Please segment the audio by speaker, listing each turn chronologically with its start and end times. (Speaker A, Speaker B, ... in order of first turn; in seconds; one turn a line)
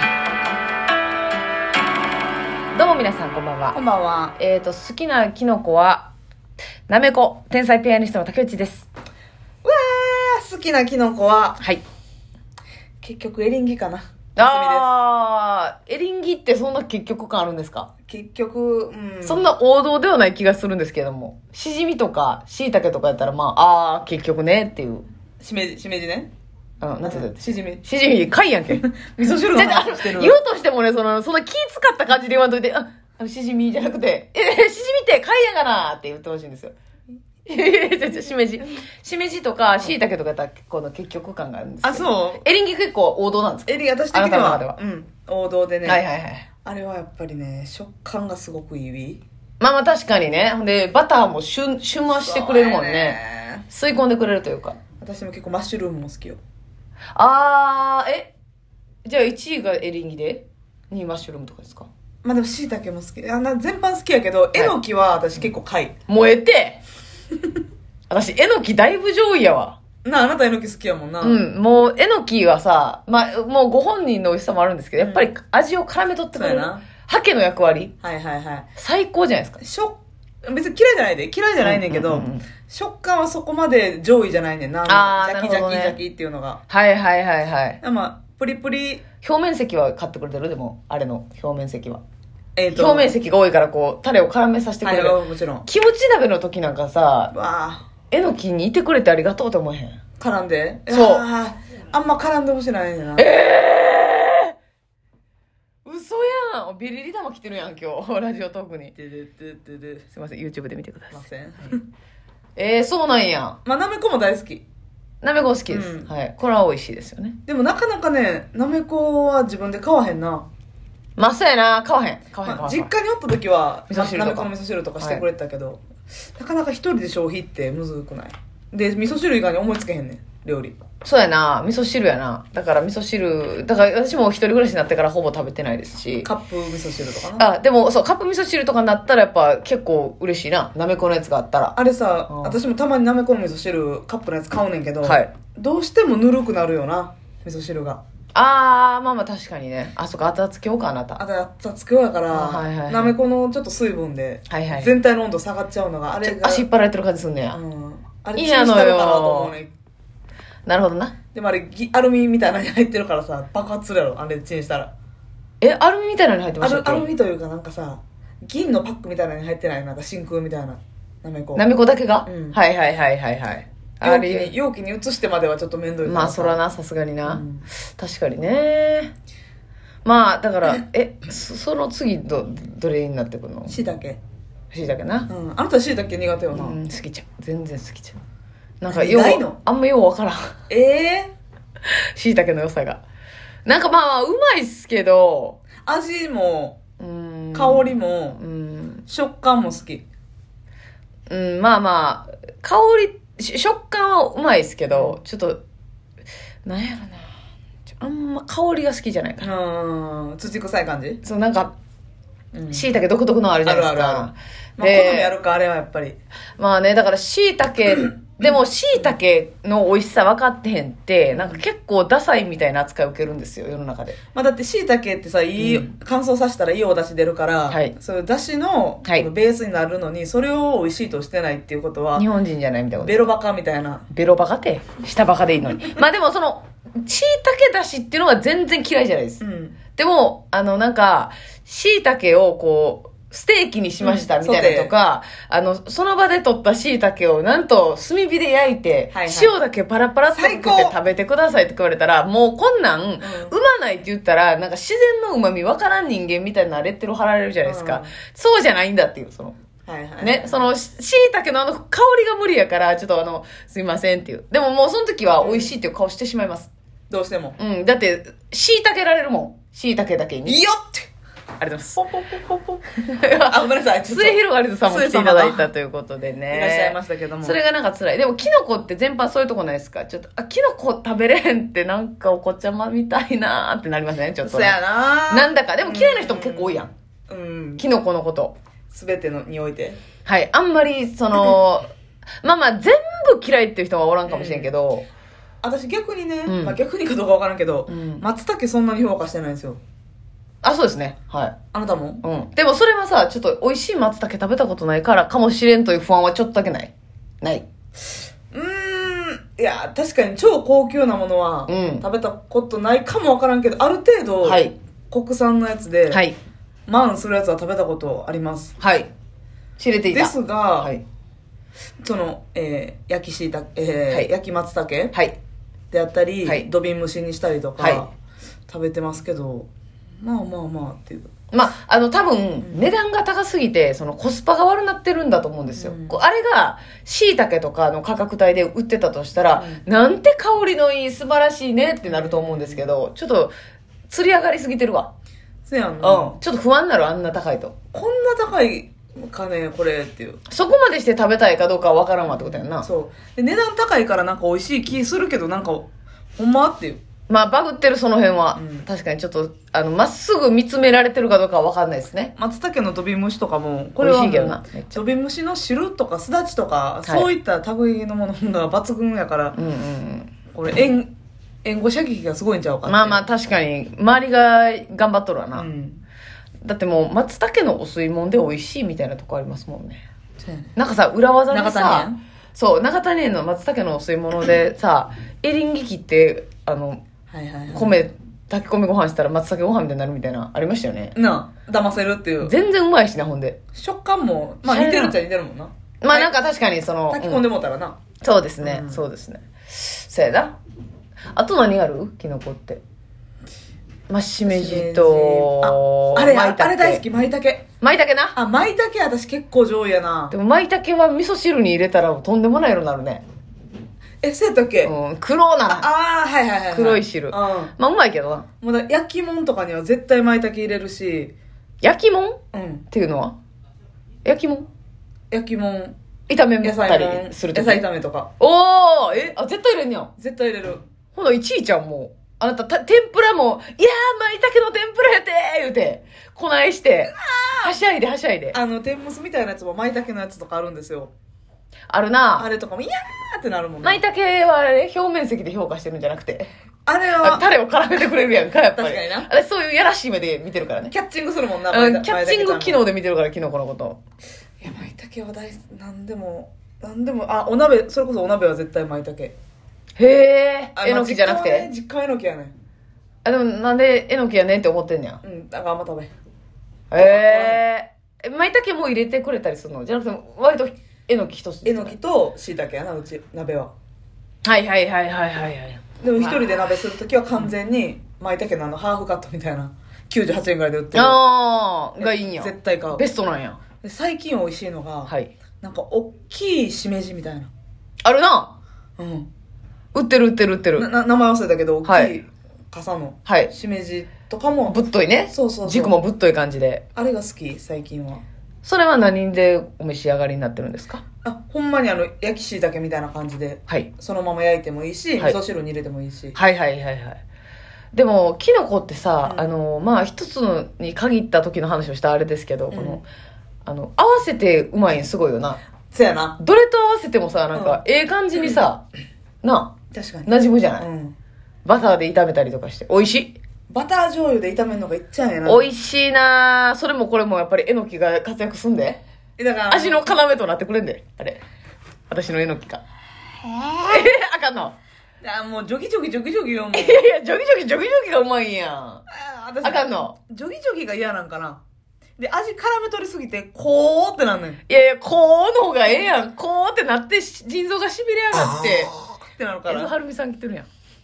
Speaker A: 2.7-3.8
Speaker B: 3.7-4.4
Speaker A: 4.4-6.1
Speaker A: 6.9-8.9
Speaker B: 9.6-11.6
Speaker B: 13.0-14.9
Speaker A: 14.3-17.9
Speaker B: 18.1-19.5
Speaker A: 19.2-25.0
Speaker B: 25.4-26.3
Speaker A: 26.8-28.9
Speaker B: 27.0-27.8
Speaker B: 28.7-30.4
Speaker A: 29.4-36.7
Speaker A: 37.5-44.8
Speaker B: 41.8-42.4
Speaker B: 43.7-46.0
Speaker A: 45.8-46.5
Speaker B: 46.6-49.2
Speaker A: 49.6-54.8
Speaker B: 52.1-53.6
Speaker B: 55.0-56.4
Speaker A: 57.1-58.3
Speaker A: 59.0-61.9
Speaker B: 62.2-65.9
Speaker A: 66.1-66.8
Speaker A: 68.1-69.8
Speaker B: 70.0-71.4
Speaker A: 71.2-77.9
Speaker B: 75.0-75.3
Speaker B: 76.4-76.8
Speaker B: 78.0-78.7
Speaker A: 78.8-79.6
Speaker B: 79.6-86.6
Speaker A: 81.6-82.4
Speaker A: 84.9-86.0
Speaker A: 86.7-87.8
Speaker B: 87.8-89.0
Speaker A: 89.2-92.0
Speaker B: 92.5-93.1
Speaker A: 92.7-97.3
Speaker B: 94.8-95.7
Speaker B: 97.3-97.8
Speaker A: 98.1-100.0
Speaker B: 100.2-103.3
Speaker A: 100.9-101.2
Speaker A: 103.2-104.5
Speaker A: 105.8-108.9
Speaker B: 108.9-110.0
Speaker A: 110.1-111.2
Speaker B: 111.1-111.8
Speaker A: 112.5-113.6
Speaker B: 113.6-114.6
Speaker A: 115.2-117.4
Speaker B: 115.7-116.1
Speaker B: 117.5-120.5
Speaker A: 121.2-122.9
Speaker B: 122.4-125.8
Speaker A: 123.9-125.2
Speaker B: 126.3-130.8
Speaker A: 131.0-136.3
Speaker B: 136.2-137.5
Speaker A: 137.4-141.8
Speaker B: 141.7-148.0
Speaker A: 145.0-145.3
Speaker A: 148.3-151.2
Speaker B: 151.2-156.6
Speaker A: 152.3-153.2
Speaker A: 154.5-154.9
Speaker A: 156.2-157.6
Speaker B: 157.5-159.7
Speaker A: 158.3-159.5
Speaker A: 160.7-161.1
Speaker B: 161.3-164.9
Speaker A: 165.6-167.1
Speaker B: 166.6-171.6
Speaker A: 171.6-174.5
Speaker B: 172.2-172.6
Speaker B: 174.0-176.6
Speaker A: 176.0-177.4
Speaker B: 177.2-177.7
Speaker A: 177.9-179.1
Speaker A: 180.0-183.8
Speaker B: 183.7-184.2
Speaker A: 184.7-185.3
Speaker B: 185.3-186.8
Speaker A: 186.5-188.2
Speaker A: 188.8-190.5
Speaker B: 188.9-189.6
Speaker B: 190.7-191.3
Speaker A: 191.9-193.0
Speaker A: 193.7-195.6
Speaker B: 195.8-196.8
Speaker A: 197.0-199.0
Speaker B: 197.5-198.4
Speaker B: 199.1-200.0
Speaker A: 201.3-205.6
Speaker B: 204.9-205.2
Speaker A: 206.6-207.2
Speaker A: 207.9-209.5
Speaker B: 209.4-211.2
Speaker A: 211.2-211.7
Speaker B: 212.5-212.9
Speaker A: 212.7-215.3
Speaker B: 213.6-216.2
Speaker A: 216.6-224.2
Speaker B: 221.3-221.6
Speaker B: 224.3-232.2
Speaker A: 225.6-225.9
Speaker A: 227.7-227.9
Speaker A: 232.2-233.2
Speaker B: 233.0-234.0
Speaker A: 234.1-239.4
Speaker B: 239.4-239.8
Speaker A: 239.9-259.6
Speaker B: 244.0-244.9
Speaker B: 249.1-249.5
Speaker B: 250.3-250.9
Speaker B: 253.2-253.5
Speaker B: 257.6-258.1
Speaker B: 259.9-260.7
Speaker A: 260.2-266.7
Speaker B: 265.4-265.7
Speaker B: 267.1-267.6
Speaker A: 267.6-270.6
Speaker B: 270.4-271.1
Speaker A: 271.6-272.0
Speaker B: 272.0-275.7
Speaker A: 273.0-284.8
Speaker B: 276.5-277.6
Speaker B: 284.4-287.8
Speaker A: 285.3-286.9
Speaker A: 287.8-288.6
Speaker B: 288.9-290.0
Speaker A: 290.2-291.9
Speaker A: 292.4-295.1
Speaker B: 294.2-294.7
Speaker B: 295.6-299.8
Speaker A: 296.4-296.8
Speaker A: 297.9-298.2
Speaker A: 300.6-301.5
Speaker B: 301.7-302.2
Speaker A: 302.2-307.6
Speaker B: 308.5-316.2
Speaker A: 311.7-312.0
Speaker A: 314.4-314.7
Speaker A: 316.1-316.4
Speaker B: 316.9-318.7
Speaker A: 318.8-319.1
Speaker A: 319.8-321.0
Speaker B: 320.1-320.9
Speaker B: 322.0-325.1
Speaker B: 325.9-328.1
Speaker A: 327.8-328.1
Speaker B: 328.7-329.7
Speaker B: 330.2-331.3
Speaker A: 331.5-343.5
Speaker B: 332.6-332.9
Speaker B: 335.7-336.2
Speaker B: 339.5-339.8
Speaker B: 342.0-342.9
Speaker A: 344.1-345.1
Speaker B: 345.6-346.4
Speaker A: 346.0-347.7
Speaker B: 347.9-350.4
Speaker A: 350.5-352.9
Speaker B: 352.3-357.0
Speaker A: 357.3-362.3
Speaker B: 358.5-358.9
Speaker B: 362.4-369.6
Speaker A: 364.0-365.0
Speaker A: 369.5-370.3
Speaker B: 370.5-371.1
Speaker B: 371.6-373.2
Speaker A: 372.9-375.6
Speaker B: 375.5-376.0
Speaker A: 376.6-380.0
Speaker B: 380.4-380.7
Speaker A: 380.8-387.0
Speaker B: 381.5-382.2
Speaker B: 387.3-387.9
Speaker A: 387.7-391.1
Speaker B: 391.1-392.5
Speaker A: 392.4-393.6
Speaker B: 393.7-396.3
Speaker A: 394.6-395.2
Speaker A: 396.0-397.4
Speaker B: 397.1-398.0
Speaker A: 398.2-400.5
Speaker B: 398.6-399.0
Speaker A: 401.3-402.8
Speaker A: 404.1-407.0
Speaker B: 404.5-407.6
Speaker A: 407.8-408.4
Speaker B: 408.3-410.3
Speaker A: 410.3-413.2
Speaker B: 414.2-414.9
Speaker A: 414.8-415.9
Speaker B: 415.6-417.7
Speaker A: 416.7-418.4
Speaker B: 418.6-421.3
Speaker A: 421.8-422.4
Speaker B: 422.5-422.9
Speaker A: 422.9-423.4
Speaker A: 424.2-424.7
Speaker B: 425.3-425.9
Speaker A: 426.3-427.8
Speaker B: 426.6-428.3
Speaker A: 428.4-430.1
Speaker B: 430.2-430.8
Speaker A: 431.1-438.6
Speaker B: 437.1-437.7
Speaker B: 438.5-441.1
Speaker A: 441.9-442.5
Speaker B: 442.4-444.0
Speaker A: 443.8-446.5
Speaker B: 446.9-447.5
Speaker A: 447.2-450.9
Speaker B: 448.7-449.3
Speaker B: 450.9-452.8
Speaker A: 451.7-454.0
Speaker B: 454.6-459.3
Speaker A: 460.0-461.7
Speaker B: 460.8-462.5
Speaker A: 463.2-465.2
Speaker B: 465.2-466.1
Speaker A: 466.9-471.9
Speaker B: 466.9-467.6
Speaker B: 471.6-473.7
Speaker A: 474.4-476.4
Speaker B: 476.0-481.2
Speaker A: 480.9-483.6
Speaker B: 482.0-483.0
Speaker B: 483.8-487.5
Speaker A: 485.1-485.3
Speaker A: 488.0-488.5
Speaker B: 489.0-489.3
Speaker A: 489.9-490.9
Speaker B: 490.8-494.8
Speaker A: 491.8-492.1
Speaker A: 493.2-493.5
Speaker A: 494.7-496.8
Speaker B: 495.3-495.9
Speaker B: 496.9-498.2
Speaker A: 498.6-501.0
Speaker B: 501.2-506.4
Speaker A: 506.3-507.2
Speaker A: 507.9-513.0
Speaker B: 509.2-509.5
Speaker B: 512.7-513.0
Speaker A: 513.6-515.6
Speaker B: 515.9-516.4
Speaker A: 516.4-518.8
Speaker B: 517.5-517.8
Speaker A: 519.4-519.7
Speaker B: 519.9-521.1
Speaker A: 520.2-520.9
Speaker A: 521.6-523.4
Speaker B: 523.7-525.7
Speaker A: 525.4-529.0
Speaker B: 529.4-530.0
Speaker A: 529.7-531.4
Speaker A: 532.1-532.8
Speaker A: 533.8-534.8
Speaker B: 535.2-537.0
Speaker A: 536.7-539.0
Speaker B: 539.1-541.6
Speaker A: 539.6-540.1
Speaker B: 542.2-544.6
Speaker A: 544.7-549.0
Speaker B: 548.9-549.9
Speaker A: 549.7-550.7